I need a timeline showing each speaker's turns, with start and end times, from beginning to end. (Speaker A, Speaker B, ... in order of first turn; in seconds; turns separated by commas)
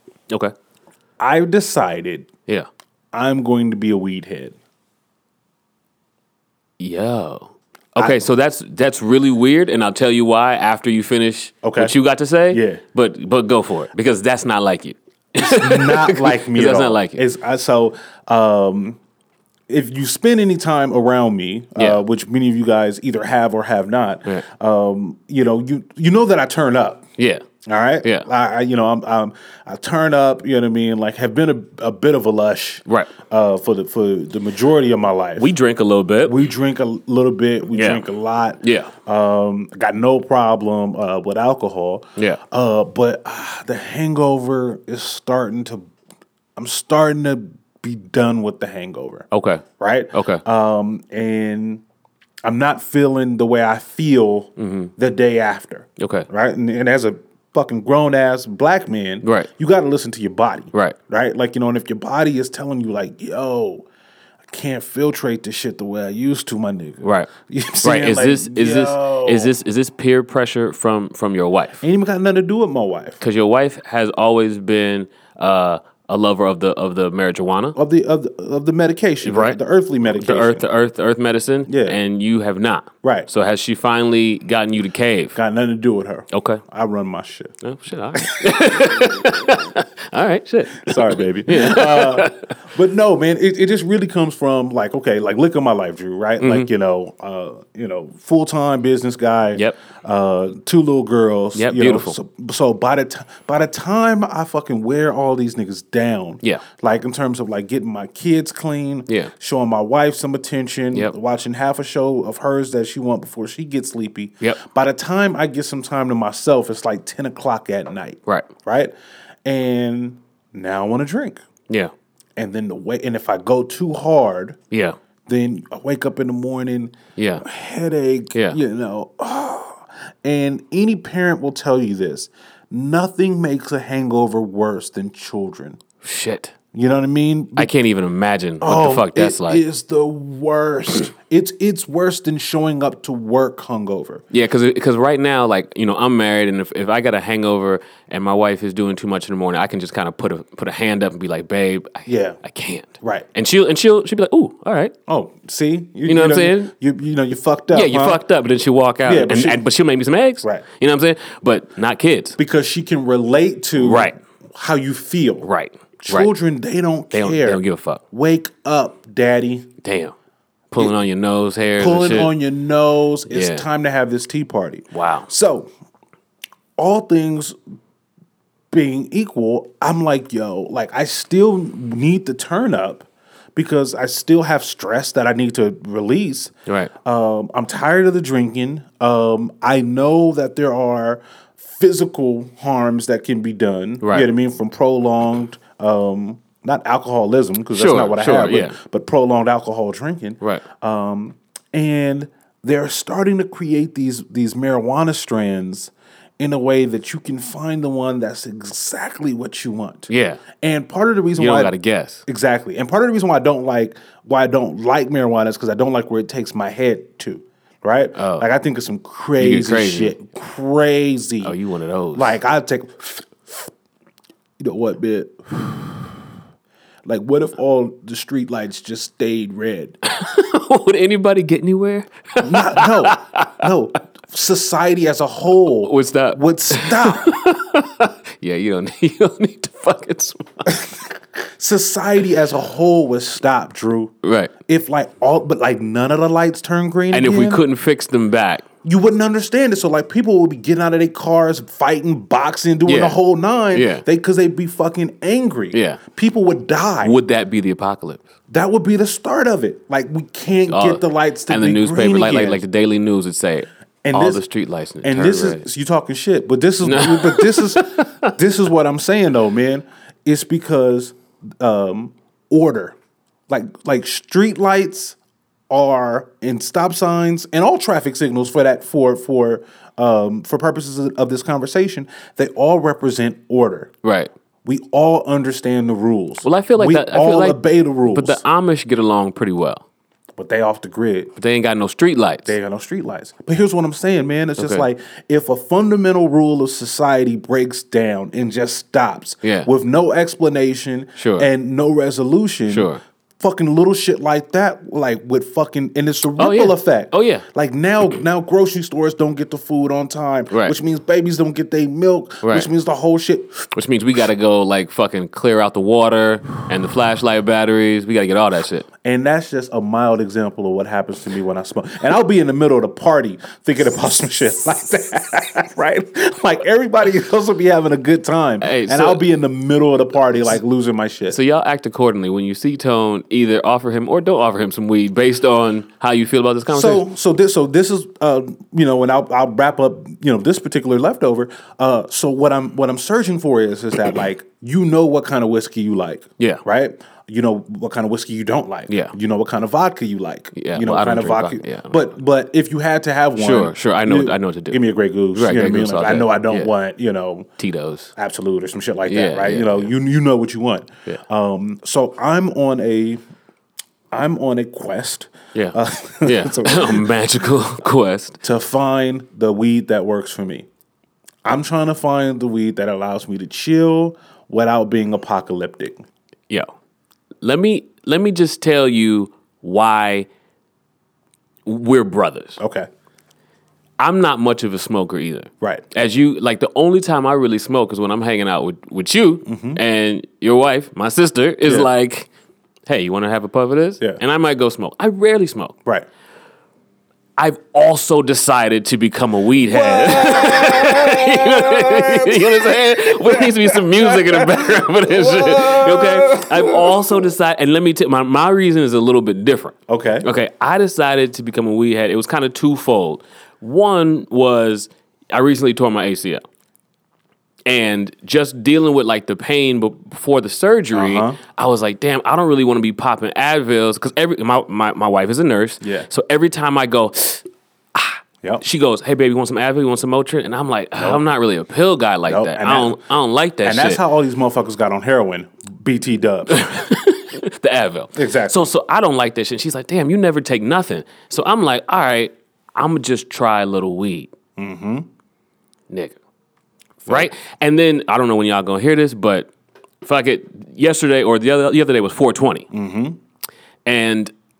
Speaker A: 1.2-2.3, Speaker A: 3.1-4.5, Speaker B: 6.8-17.2, Speaker A: 11.6-11.9, Speaker A: 12.5-12.8, Speaker A: 15.4-19.0, Speaker A: 19.7-27.0, Speaker B: 21.8-22.0, Speaker B: 27.2-27.4, Speaker A: 27.6-35.5, Speaker B: 28.0-28.3, Speaker B: 32.9-33.1, Speaker B: 35.4-36.4, Speaker A: 36.2-45.9, Speaker B: 37.7-38.0, Speaker B: 38.6-38.9, Speaker A: 46.5-49.2, Speaker B: 49.3-50.4, Speaker A: 49.8-51.8, Speaker A: 52.4-63.8, Speaker B: 54.6-54.9, Speaker B: 56.0-56.3, Speaker B: 59.2-59.5, Speaker A: 64.5-69.5, Speaker B: 67.0-67.3, Speaker B: 67.8-71.8, Speaker A: 71.8-73.2, Speaker B: 73.2-77.8, Speaker A: 77.8-80.6, Speaker B: 79.2-79.6, Speaker B: 80.1-85.3, Speaker A: 81.7-82.0, Speaker A: 83.0-83.3, Speaker A: 85.3-87.5, Speaker B: 86.3-86.6, Speaker B: 87.6-92.5, Speaker A: 88.2-88.5, Speaker A: 90.8-118.9, Speaker B: 96.4-96.7, Speaker B: 101.5-102.2, Speaker A: 119.4-121.4, Speaker A: 122.4-124.6, Speaker B: 124.7-125.0, Speaker A: 125.3-135.8, Speaker B: 127.2-127.4, Speaker B: 128.3-128.6, Speaker B: 136.0-136.5, Speaker A: 136.7-137.7, Speaker B: 137.6-139.6, Speaker A: 138.6-144.2, Speaker B: 144.3-154.9, Speaker A: 152.1-152.4, Speaker A: 153.0-153.2, Speaker A: 155.1-158.2, Speaker B: 156.1-156.7, Speaker B: 157.7-162.4, Speaker A: 159.0-159.6, Speaker A: 162.4-165.5, Speaker B: 163.8-164.2, Speaker B: 165.4-166.3, Speaker A: 166.0-169.7, Speaker B: 167.1-168.0, Speaker B: 169.8-170.1, Speaker B: 170.7-172.3, Speaker A: 171.8-175.7, Speaker B: 173.3-173.6, Speaker B: 174.9-175.3, Speaker A: 176.8-177.6, Speaker A: 178.7-186.5, Speaker A: 187.0-210.1, Speaker B: 194.0-194.3, Speaker B: 197.7-198.8, Speaker B: 210.1-210.4, Speaker A: 210.6-211.7, Speaker B: 211.3-212.2, Speaker A: 212.3-221.5, Speaker B: 218.2-218.5, Speaker B: 219.4-220.2, Speaker B: 221.4-222.4, Speaker A: 222.1-223.7, Speaker A: 224.6-226.2, Speaker A: 227.1-229.9, Speaker B: 230.0-233.7, Speaker A: 232.4-237.3, Speaker B: 235.8-240.7, Speaker A: 240.7-244.1, Speaker B: 244.2-244.5, Speaker A: 244.7-247.6, Speaker B: 247.1-248.6, Speaker A: 248.8-257.2, Speaker B: 252.8-253.2, Speaker B: 253.7-254.0, Speaker B: 255.7-256.0, Speaker B: 257.0-258.2, Speaker A: 258.5-262.6, Speaker B: 260.7-265.6, Speaker A: 264.0-264.4, Speaker A: 265.0-272.9, Speaker B: 266.8-268.3, Speaker A: 273.5-275.2, Speaker A: 275.7-283.9, Speaker B: 284.0-284.3, Speaker A: 284.6-288.4, Speaker B: 286.4-289.8, Speaker A: 290.4-291.3, Speaker B: 291.4-292.5, Speaker A: 292.4-313.6, Speaker B: 294.6-294.9, Speaker B: 299.4-299.7, Speaker B: 301.2-301.5, Speaker B: 302.7-303.0, Speaker B: 306.4-307.4, Speaker B: 312.4-312.7, Speaker B: 313.7-318.9, Speaker A: 319.0-331.4, Speaker B: 328.6-329.2, Speaker B: 331.3-337.0, Speaker A: 336.7-357.5, Speaker B: 348.9-349.1, Speaker B: 350.5-352.1, Speaker B: 353.4-356.7, Speaker B: 357.6-358.1, Speaker A: 358.1-363.2, Speaker B: 359.1-359.9, Speaker A: 364.1-367.1, Speaker B: 365.5-368.4, Speaker A: 368.4-370.7, Speaker A: 371.4-376.0, Speaker B: 377.4-380.3, Speaker B: 381.6-382.6, Speaker A: 382.6-382.9, Speaker B: 384.0-392.3, Speaker A: 389.4-389.8, Speaker A: 391.6-391.9, Speaker B: 392.9-395.8, Speaker B: 397.4-416.4, Speaker A: 399.7-407.3, Speaker A: 409.9-410.2, Speaker B: 417.6-427.4, Speaker A: 420.9-421.4, Speaker A: 425.8-426.1, Speaker B: 427.9-434.0, Speaker A: 430.9-431.2, Speaker A: 432.3-433.0, Speaker A: 433.6-436.6, Speaker B: 436.5-444.3, Speaker A: 438.1-438.7, Speaker A: 444.6-445.1, Speaker B: 445.9-446.2, Speaker B: 447.1-449.5, Speaker B: 450.0-452.7, Speaker A: 452.7-453.2, Speaker B: 453.9-454.3